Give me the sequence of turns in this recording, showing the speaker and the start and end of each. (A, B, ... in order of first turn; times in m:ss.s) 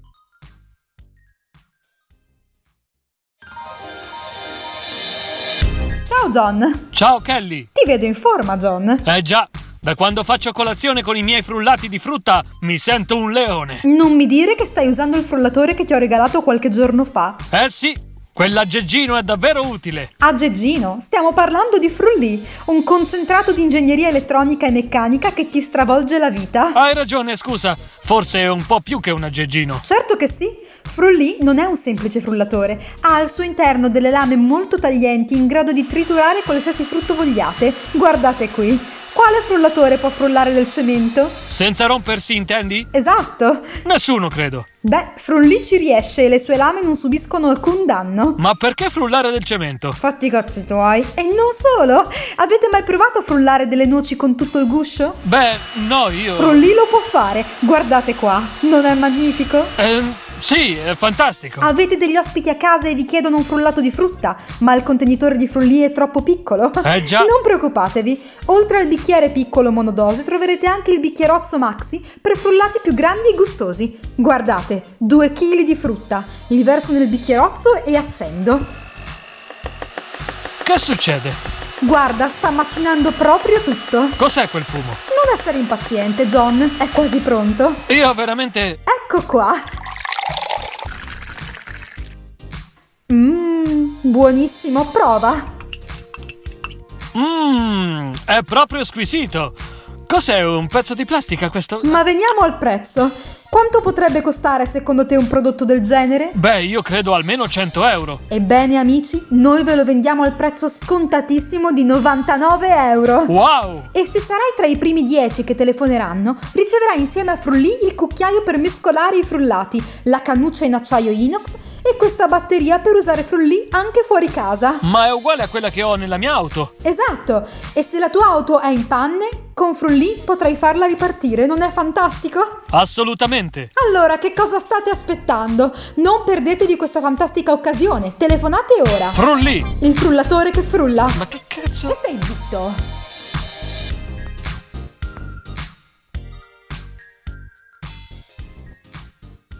0:06.0-0:06.9 A
0:06.9-0:07.7 B
0:07.7-0:09.0 A
0:09.0-0:13.8 B
0:13.8-0:17.4 A
0:17.5-0:20.1 B
0:20.2-0:26.8 A
0:26.7-0:29.8 B
0:29.8-0:41.4 A
0:41.5-0:42.9 B
0:42.9-0:43.8 A
0:43.8-0:44.6 B
0:44.8-0:48.4 A
0:48.4-0:50.0 B
0:50.0-0:55.2 A
0:55.2-0:56.6 B
0:56.4-0:59.8 A
0:59.8-1:01.7 B
1:01.6-1:18.7 A
1:06.8-1:07.3 B
1:20.6-1:21.4 B
1:21.8-1:24.2 A
1:24.2-1:25.0 B
1:25.1-1:27.9 A
1:27.9-1:28.8 B
1:28.8-1:29.6 A
1:33.1-1:35.5 A
1:37.1-1:39.6 B
1:40.1-1:42.0 B
1:41.8-1:46.4 A
1:46.3-1:48.2 B
1:48.3-1:53.3 A
1:53.3-1:53.9 B
1:53.9-2:04.8 A
2:04.8-2:06.7 B
2:06.8-2:12.6 A
2:12.7-2:13.7 B
2:13.8-2:19.2 A
2:19.1-2:19.7 B
2:19.8-2:21.2 A
2:21.1-2:22.0 B
2:21.9-2:22.8 A